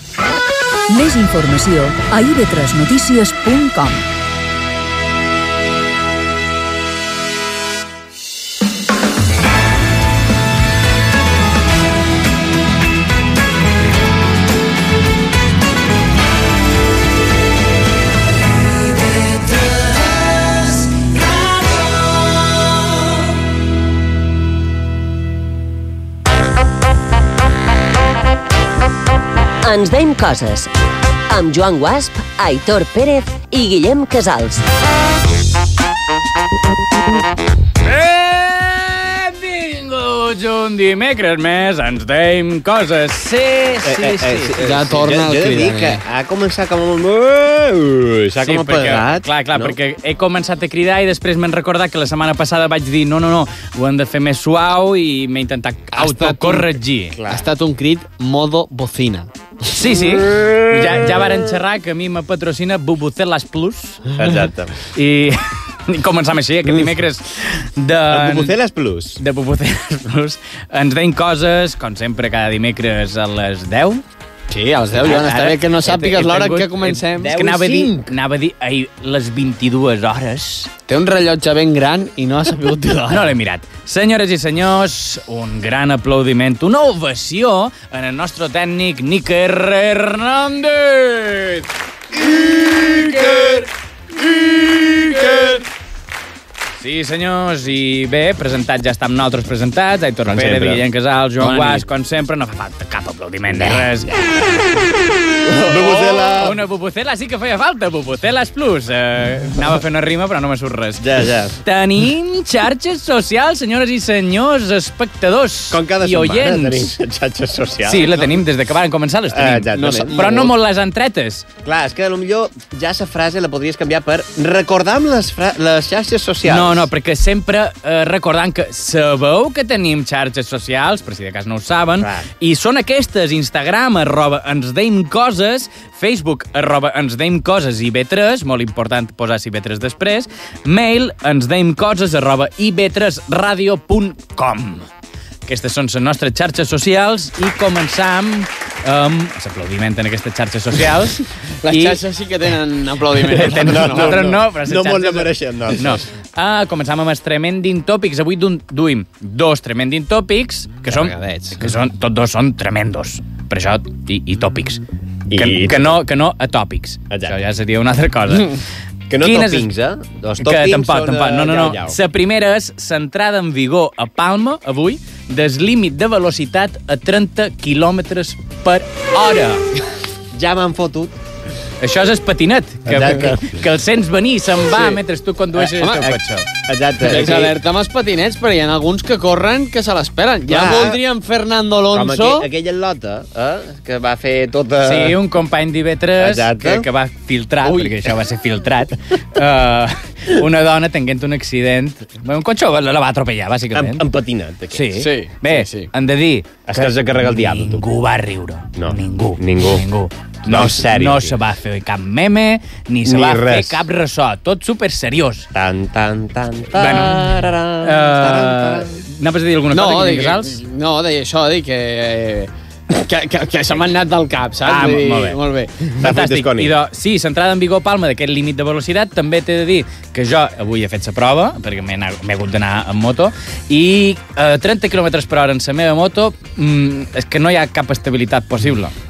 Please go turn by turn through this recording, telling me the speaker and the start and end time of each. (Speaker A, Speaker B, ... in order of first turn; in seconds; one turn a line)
Speaker A: 0.9-4.0
Speaker B: 29.6-30.7
Speaker B: 31.3-34.6
Speaker C: 37.8-44.6
Speaker D: 43.8-49.8
Speaker E: 44.6-46.0
Speaker C: 48.4-57.2
Speaker E: 55.9-59.3
Speaker D: 57.1-57.5
Speaker C: 59.7-64.1
Speaker D: 59.8-61.5
Speaker D: 64.2-64.7
Speaker C: 64.8-68.5
Speaker D: 68.1-69.2
Speaker C: 69.2-74.0
Speaker E: 74.5-77.3
Speaker C: 75.0-80.7
Speaker D: 77.2-78.2
Speaker E: 80.9-83.3
Speaker C: 83.1-93.7
Speaker C: 94.3-95.5
Speaker C: 96.8-104.4
Speaker D: 100.3-100.8
Speaker D: 101.4-101.8
Speaker D: 103.5-104.4
Speaker D: 105.4-106.6
Speaker C: 105.7-111.0
Speaker D: 111.0-111.5
Speaker C: 111.6-117.0
Speaker D: 115.7-118.1
Speaker C: 117.8-121.5
Speaker E: 118.0-118.4
Speaker D: 119.3-120.5
Speaker E: 119.7-120.5
Speaker D: 121.6-126.9
Speaker C: 126.5-144.9
Speaker D: 132.0-132.3
Speaker C: 145.5-152.0
Speaker E: 151.6-154.2
Speaker C: 153.3-168.6
Speaker D: 153.4-156.1
Speaker E: 160.8-161.7
Speaker D: 165.3-166.0
Speaker D: 167.1-167.3
Speaker D: 169.1-172.0
Speaker C: 169.2-169.7
Speaker C: 170.4-179.7
Speaker D: 180.3-181.2
Speaker C: 181.8-186.5
Speaker D: 182.9-183.6
Speaker D: 185.6-187.6
Speaker E: 185.8-186.1
Speaker E: 187.0-192.5
Speaker C: 187.1-187.4
Speaker D: 190.5-191.0
Speaker D: 191.9-195.2
Speaker C: 194.8-204.0
Speaker D: 196.2-196.9
Speaker E: 197.6-198.1
Speaker D: 203.7-204.9
Speaker C: 204.7-215.5
Speaker E: 205.0-205.9
Speaker D: 206.7-207.9
Speaker D: 208.8-209.8
Speaker D: 210.5-211.4
Speaker D: 213.1-213.8
Speaker D: 215.5-218.9
Speaker C: 216.8-220.6
Speaker E: 219.7-225.9
Speaker C: 224.7-225.4
Speaker D: 226.0-226.8
Speaker C: 226.0-238.9